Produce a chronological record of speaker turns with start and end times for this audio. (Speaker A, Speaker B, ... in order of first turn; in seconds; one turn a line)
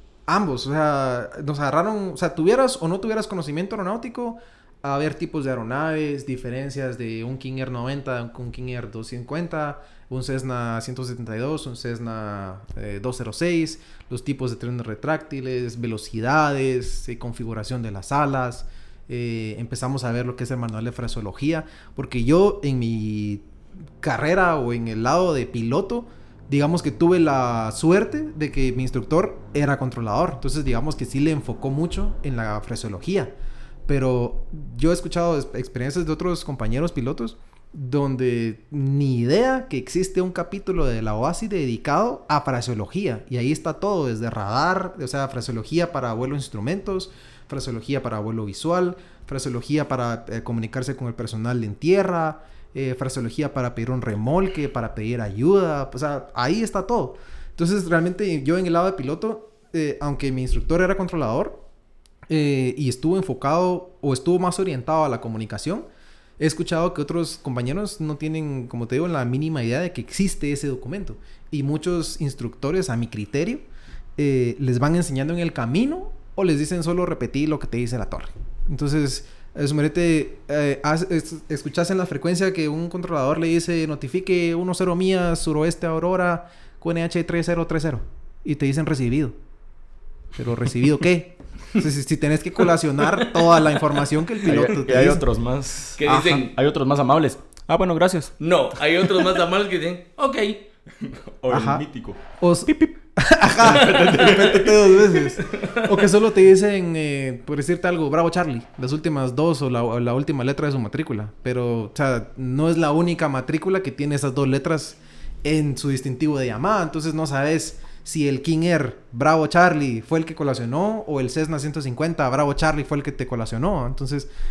Speaker A: 0.3-23.4
Speaker A: 24.0-33.3
Speaker A: 33.9-61.6
Speaker A: 62.3-65.9
Speaker A: 66.4-73.7
Speaker A: 74.2-89.4
Speaker A: 90.4-95.3
Speaker B: 94.4-99.3
Speaker C: 96.0-96.5
Speaker A: 96.0-96.5
Speaker C: 98.4-100.7
Speaker B: 101.0-102.9
Speaker A: 101.5-101.8
Speaker A: 102.4-124.3
Speaker B: 103.5-105.4
Speaker C: 104.0-104.3